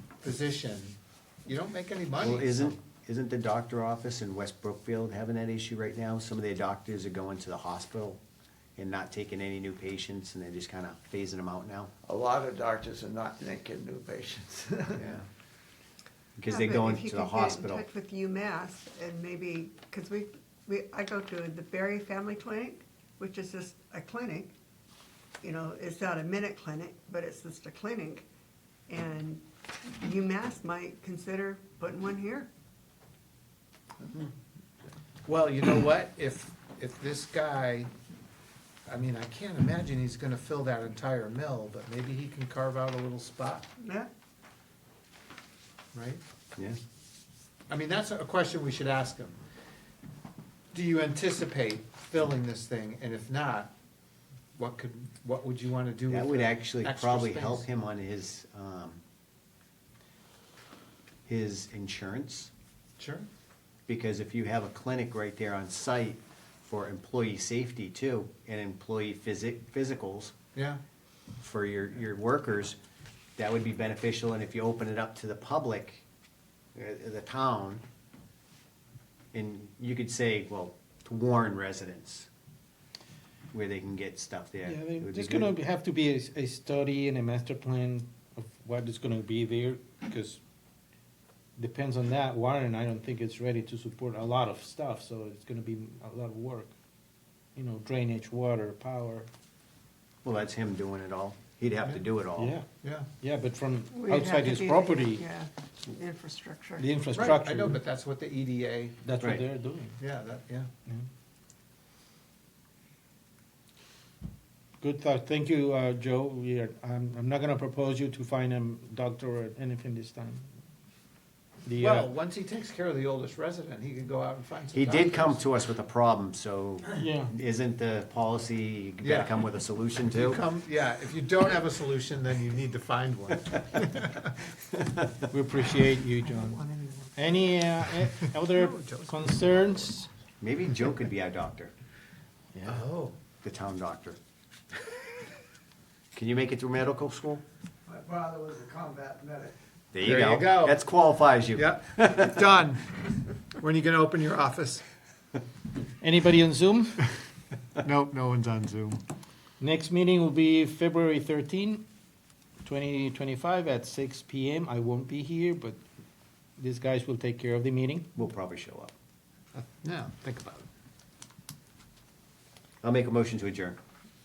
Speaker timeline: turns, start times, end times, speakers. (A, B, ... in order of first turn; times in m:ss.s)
0:00.2-0:02.7 A
0:02.2-0:08.2 B
0:08.8-0:11.9 B
0:12.0-0:15.0 C
0:15.0-0:15.2 B
0:16.4-0:17.8 B
0:16.5-0:24.5 D
0:25.4-0:28.2 D
0:28.9-0:32.5 D
0:34.0-0:34.3 C
0:35.2-0:37.9 A
0:38.9-0:43.6 A
0:43.8-0:44.1 D
0:45.9-0:46.2 A
0:47.7-0:49.4 A
0:50.7-0:53.7 A
0:54.6-0:57.6 A
0:56.1-0:59.0 B
1:01.2-1:02.5 B
1:03.0-1:03.3 A
1:03.9-1:10.3 B
1:10.5-1:10.8 A
1:11.4-1:12.8 B
1:13.4-1:16.0 B
1:16.7-1:17.8 B
1:19.3-1:22.3 B
1:23.5-1:25.5 B
1:24.6-1:30.4 E
1:31.6-1:36.7 E
1:37.5-1:39.3 E
1:40.2-1:42.6 B
1:42.4-1:42.6 E
1:42.8-1:43.1 A
1:43.2-1:45.2 E
1:43.9-1:46.9 D
1:46.8-1:47.8 E
1:47.1-1:49.0 A
1:49.0-1:50.0 E
1:50.0-1:50.7 A
1:54.8-2:00.4 E
2:01.6-2:02.1 E
2:01.8-2:05.4 A
2:04.7-2:10.4 B
2:07.0-2:07.3 E
2:09.0-2:09.3 A
2:10.1-2:14.4 A
2:15.3-2:16.6 E
2:16.2-2:17.5 D
2:17.2-2:20.1 E
2:18.4-2:19.1 A
2:20.4-2:21.7 B
2:22.5-2:22.8 E
2:22.6-2:23.1 A
2:23.4-2:24.2 B
2:26.1-2:27.4 B
2:27.8-2:29.5 C
2:29.9-2:32.5 B
2:30.0-2:30.8 A
2:31.6-2:32.9 A
2:33.6-2:34.8 A
2:36.0-2:37.0 E
2:37.8-2:39.0 A
2:39.6-2:41.8 E
2:42.6-2:45.8 E
2:46.6-2:48.1 E
2:48.2-2:48.9 B
2:49.5-2:50.6 A
2:52.8-2:53.8 B